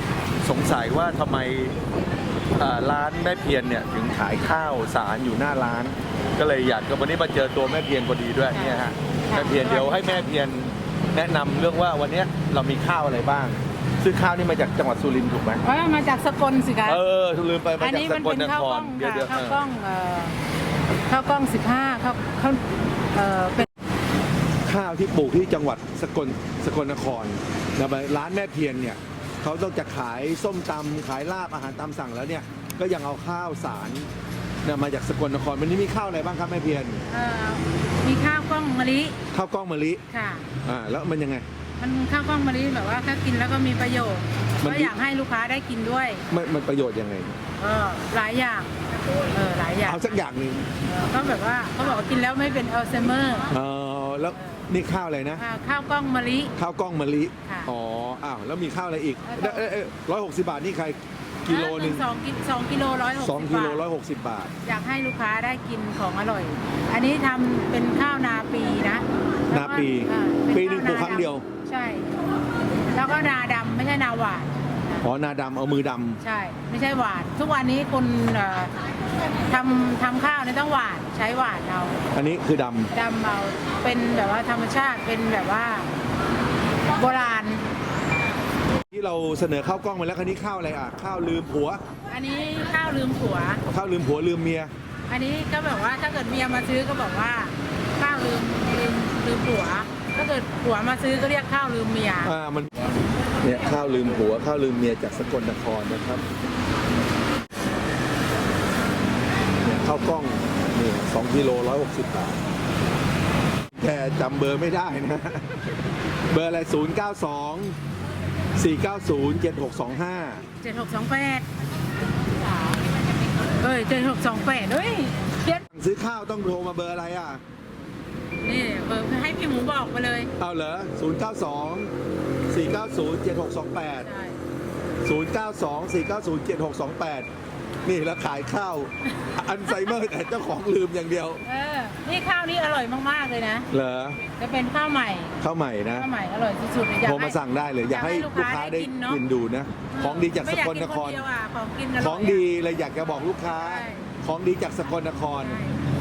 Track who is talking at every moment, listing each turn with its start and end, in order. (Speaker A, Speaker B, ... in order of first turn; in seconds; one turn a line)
Speaker A: 0.4-1.8
Speaker A: 2.6-15.6
Speaker B: 8.5-10.3
Speaker B: 15.6-17.0
Speaker A: 16.9-19.6
Speaker B: 17.8-20.4
Speaker B: 21.1-22.6
Speaker B: 23.1-23.7
Speaker A: 24.7-34.1
Speaker A: 34.6-37.0
Speaker B: 37.1-39.2
Speaker A: 39.3-40.0
Speaker B: 40.1-40.5
Speaker A: 40.6-41.5
Speaker B: 41.8-46.3
Speaker A: 44.6-44.9
Speaker A: 46.3-47.4
Speaker B: 47.6-48.7
Speaker B: 49.3-50.2
Speaker A: 49.9-50.7
Speaker B: 50.9-53.5
Speaker A: 53.5-55.4
Speaker B: 55.4-56.5
Speaker A: 56.6-62.1
Speaker B: 57.5-57.7
Speaker B: 59.3-59.7
Speaker B: 61.5-63.8
Speaker A: 63.2-64.5
Speaker B: 64.7-72.2
Speaker A: 69.5-71.5
Speaker B: 72.9-75.0
Speaker A: 75.0-76.2
Speaker B: 76.2-78.7
Speaker B: 79.5-82.0
Speaker A: 82.1-82.9
Speaker B: 82.9-85.9
Speaker B: 87.0-87.7
Speaker A: 88.9-91.8
Speaker B: 92.1-93.6
Speaker A: 93.7-94.7
Speaker B: 95.1-102.3
Speaker A: 102.2-106.2
Speaker A: 109.6-112.4
Speaker A: 113.8-115.6
Speaker A: 116.3-117.8
Speaker A: 118.6-120.4
Speaker B: 120.6-121.5
Speaker B: 123.6-125.6
Speaker A: 125.7-127.4
Speaker B: 128.4-130.3
Speaker A: 130.4-131.9
Speaker A: 132.5-134.1
Speaker B: 134.0-134.4
Speaker A: 135.1-137.3
Speaker A: 137.8-141.4
Speaker B: 141.4-143.7
Speaker A: 143.7-144.2
Speaker B: 144.4-145.4
Speaker A: 145.4-146.1
Speaker B: 145.9-149.2
Speaker A: 147.1-151.2
Speaker B: 149.9-152.5
Speaker A: 152.0-155.6
Speaker B: 153.5-154.1
Speaker B: 155.3-155.8